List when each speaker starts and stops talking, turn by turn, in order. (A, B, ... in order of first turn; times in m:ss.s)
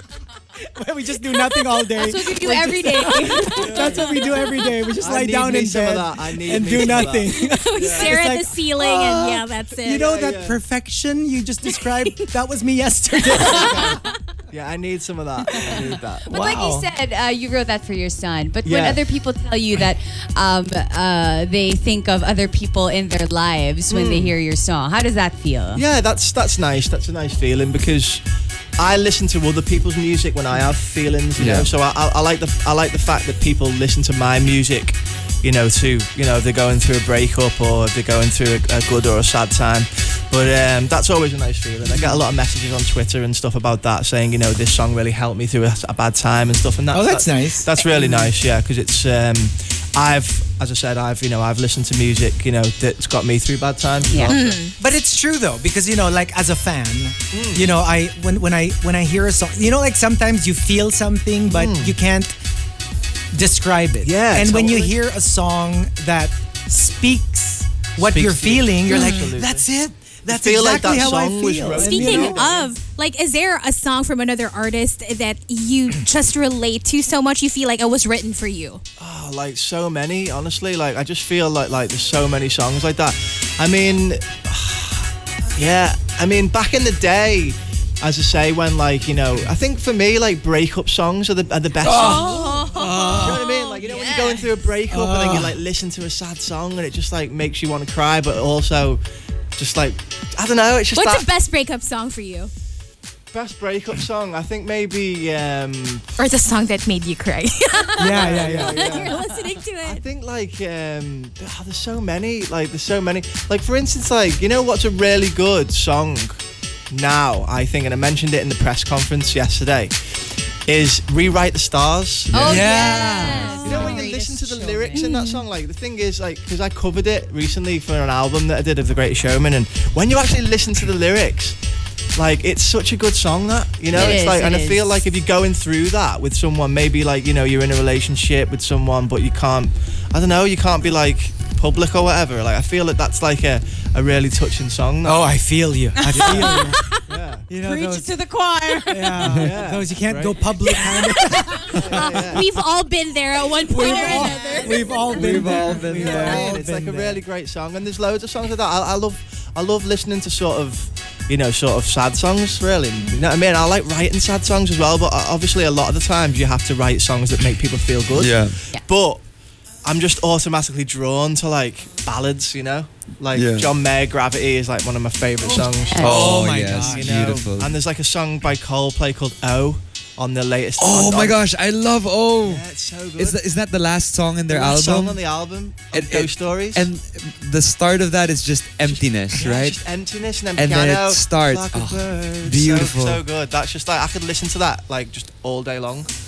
0:00.6-0:14.0 A
0:01.9-0:04.1 B
0:03.5-0:04.2 C
0:05.0-0:08.2 C
0:07.3-0:10.1 D
0:09.9-0:10.6 C
0:13.3-0:16.3 C
0:15.6-0:25.8 B
0:16.3-0:16.9 A
0:18.6-0:19.0 C
0:23.9-0:24.4 C
0:25.7-0:28.2 C
0:28.8-0:54.6 C
0:31.4-0:31.7 E
0:41.9-0:42.2 B
0:46.9-0:47.8 A
0:54.1-0:54.4 B
0:54.3-0:54.7 D
0:54.8-1:02.4 A
0:57.3-0:57.7 C
1:01.5-1:01.9 C
1:03.3-1:12.4 A
1:04.0-1:05.0 C
1:08.0-1:09.7 C
1:10.3-1:12.7 C
1:11.8-1:18.8 D
1:19.0-1:39.0 C
1:31.8-1:33.4 A
1:31.8-1:33.8 D
1:33.8-1:34.5 B
1:34.9-1:35.6 A
1:39.6-1:41.3 C
1:40.9-1:42.5 D
1:43.3-1:46.0 C
1:46.2-1:50.0 D
1:48.0-1:48.8 A
1:48.1-1:49.2 C
1:48.6-1:49.6 B
1:49.8-2:11.6 C
2:02.3-2:03.3 E
2:02.3-2:05.4 B
2:02.4-2:03.7 A
2:03.7-2:04.1 D
2:04.9-2:05.2 D
2:12.1-2:25.3 C
2:13.9-2:15.0 B
2:13.9-2:14.2 E
2:25.0-2:26.8 A
2:26.0-2:27.0 B
2:26.1-2:27.5 C
2:27.5-2:28.2 A
2:27.6-2:29.2 B
2:28.9-2:32.3 A
2:29.2-2:30.5 C
2:31.1-2:34.8 D
2:31.7-2:32.5 C
2:33.7-2:37.2 A
2:33.7-2:35.8 B
2:35.1-2:36.4 E
2:35.9-2:49.2 C
2:48.1-2:48.6 E
2:49.8-3:01.4 C
2:53.3-2:53.7 E
2:55.6-2:56.2 B
2:55.8-2:57.8 E
2:56.0-2:57.1 A
3:00.8-3:02.6 E
3:02.4-3:03.4 C
3:03.2-3:05.2 E
3:04.5-3:06.9 C
3:05.9-3:09.8 E
3:08.8-3:16.1 C
3:10.6-3:13.2 E